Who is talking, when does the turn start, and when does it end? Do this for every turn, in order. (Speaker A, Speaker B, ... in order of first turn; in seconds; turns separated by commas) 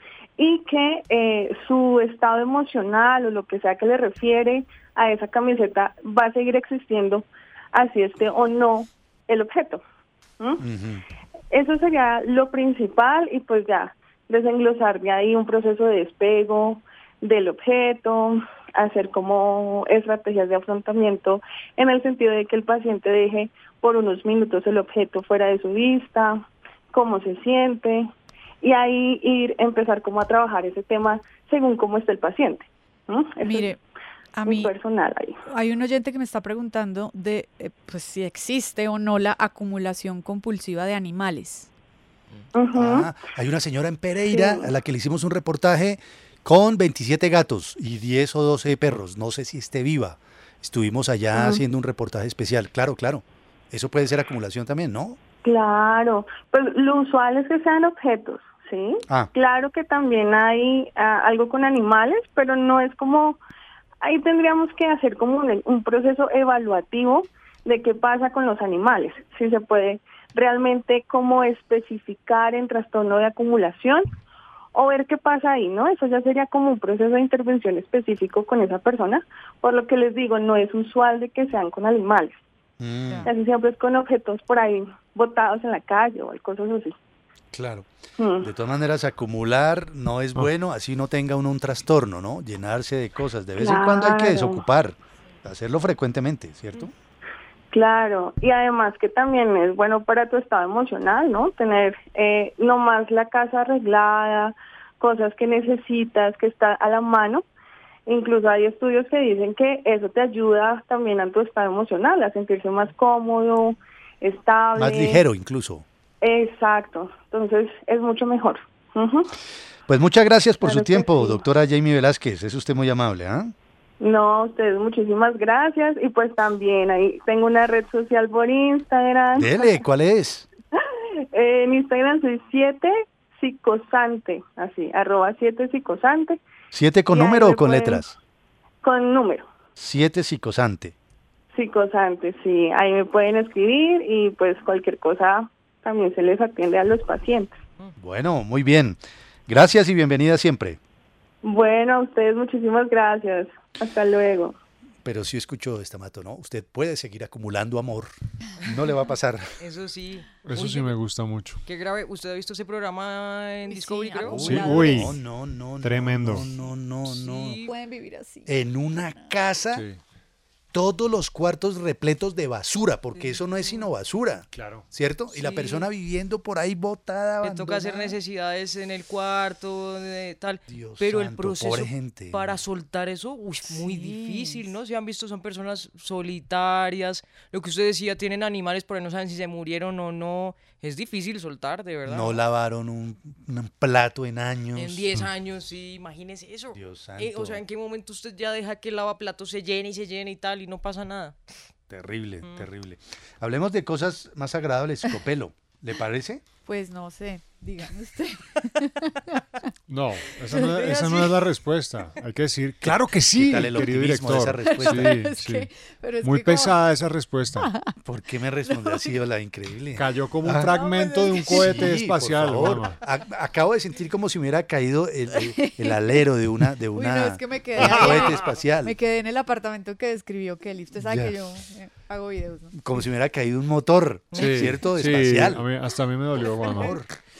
Speaker A: 0.4-9.8, Speaker B: 10.6-11.0, Speaker A: 11.5-28.1, Speaker A: 28.6-33.7, Speaker C: 33.4-33.8, Speaker C: 34.4-34.7, Speaker A: 34.5-35.4, Speaker C: 35.5-41.7, Speaker A: 42.5-43.1, Speaker B: 42.7-55.2, Speaker A: 44.3-44.6, Speaker A: 51.3-51.6, Speaker A: 55.4-63.4, Speaker A: 64.0-74.1, Speaker A: 74.7-82.4, Speaker B: 82.8-83.3, Speaker A: 83.3-86.9, Speaker B: 87.5-87.9, Speaker A: 88.2-88.5, Speaker B: 88.4-96.9, Speaker A: 93.6-94.6, Speaker A: 97.7-107.5, Speaker A: 108.1-115.2, Speaker B: 114.8-115.8, Speaker A: 116.2-119.3, Speaker B: 119.9-123.5, Speaker A: 120.6-121.4, Speaker A: 124.0-129.8, Speaker B: 129.3-130.5, Speaker A: 130.9-136.4, Speaker B: 136.7-138.2, Speaker A: 137.1-138.1, Speaker A: 138.8-139.5, Speaker B: 139.8-140.9, Speaker A: 141.5-147.6, Speaker B: 148.0-150.8, Speaker A: 151.4-154.6, Speaker B: 155.0-159.5, Speaker D: 159.6-160.9, Speaker E: 160.4-161.6, Speaker D: 161.7-164.7, Speaker C: 163.7-165.1, Speaker B: 164.2-167.6, Speaker E: 164.3-165.2, Speaker E: 165.8-166.5, Speaker D: 167.1-167.7, Speaker C: 167.6-169.3, Speaker B: 168.5-169.8, Speaker E: 169.7-170.0, Speaker B: 170.7-178.1, Speaker E: 174.5-174.9, Speaker D: 175.3-175.9, Speaker D: 177.4-192.4, Speaker B: 180.7-182.6, Speaker C: 183.7-184.6, Speaker B: 192.1-195.1, Speaker D: 194.8-201.4, Speaker B: 196.8-197.6, Speaker B: 201.9-206.4, Speaker D: 202.4-202.7, Speaker C: 206.7-209.4, Speaker E: 209.9-215.7, Speaker C: 210.5-211.3, Speaker B: 212.8-215.1, Speaker C: 214.7-216.8, Speaker E: 216.2-217.7, Speaker C: 217.6-217.9, Speaker B: 218.0-220.7, Speaker C: 218.7-219.1, Speaker E: 220.0-223.0, Speaker D: 220.8-221.4, Speaker C: 220.9-221.2, Speaker B: 221.4-228.9, Speaker C: 225.5-226.1, Speaker C: 226.9-232.8, Speaker E: 227.9-228.1, Speaker B: 231.0-231.3, Speaker B: 232.8-235.6, Speaker E: 234.4-237.0, Speaker B: 236.7-237.1